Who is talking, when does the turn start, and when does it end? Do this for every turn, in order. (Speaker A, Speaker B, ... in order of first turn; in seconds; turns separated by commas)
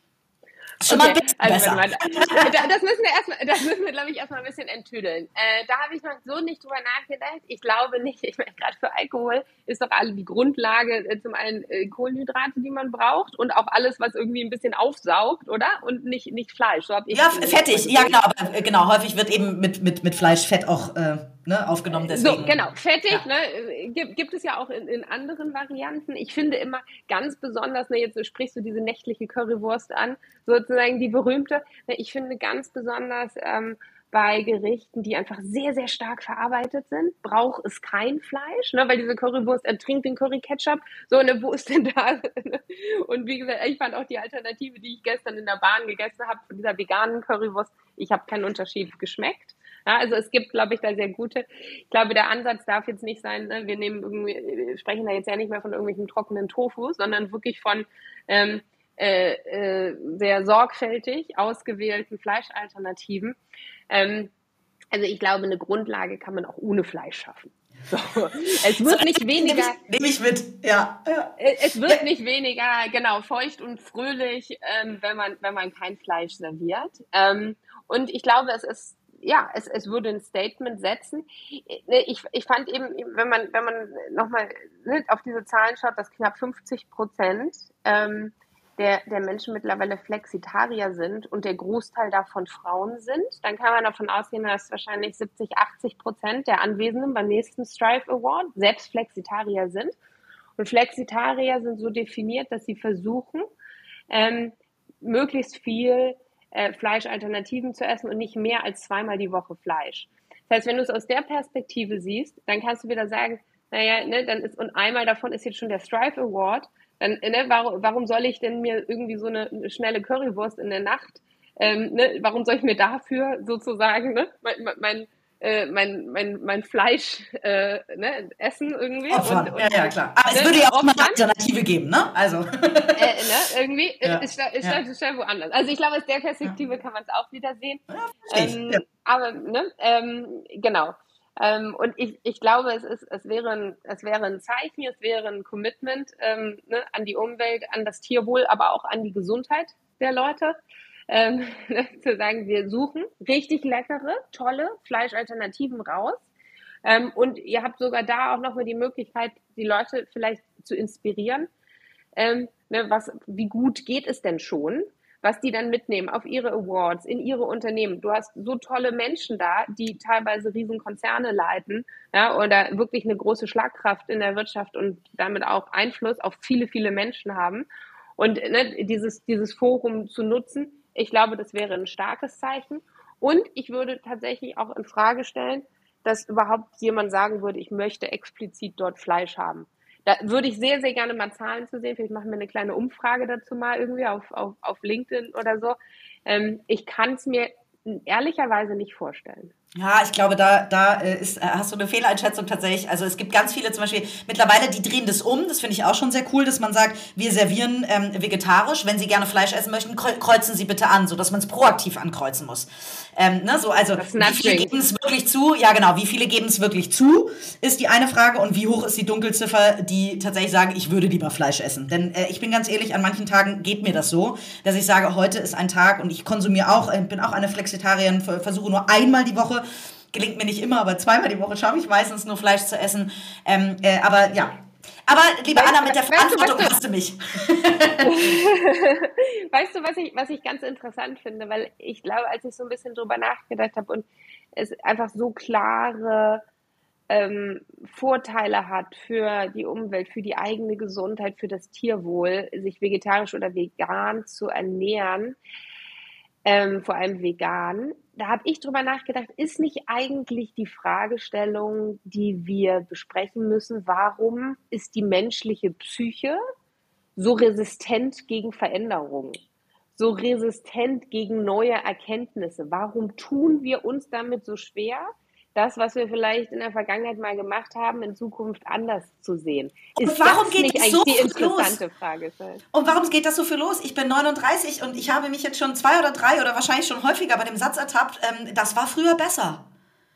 Speaker A: 0.8-2.5, Speaker B: 0.9-18.1, Speaker A: 17.1-22.6, Speaker B: 22.0-63.4, Speaker B: 63.9-64.3, Speaker B: 64.9-69.8, Speaker A: 68.8-72.0, Speaker B: 71.4-99.9, Speaker B: 100.6-103.5, Speaker B: 104.1-131.2, Speaker A: 129.1-133.2, Speaker B: 133.0-150.6, Speaker A: 134.0-134.8, Speaker A: 137.9-138.8, Speaker B: 151.1-156.3, Speaker B: 156.8-161.5, Speaker B: 162.2-177.7, Speaker B: 178.2-199.5, Speaker A: 199.7-238.4, Speaker B: 214.0-214.7, Speaker B: 235.6-236.8, Speaker B: 238.0-246.4, Speaker B: 247.1-255.4, Speaker B: 256.4-266.4, Speaker B: 267.1-269.4, Speaker B: 269.9-282.6, Speaker A: 279.9-281.8, Speaker A: 282.7-289.6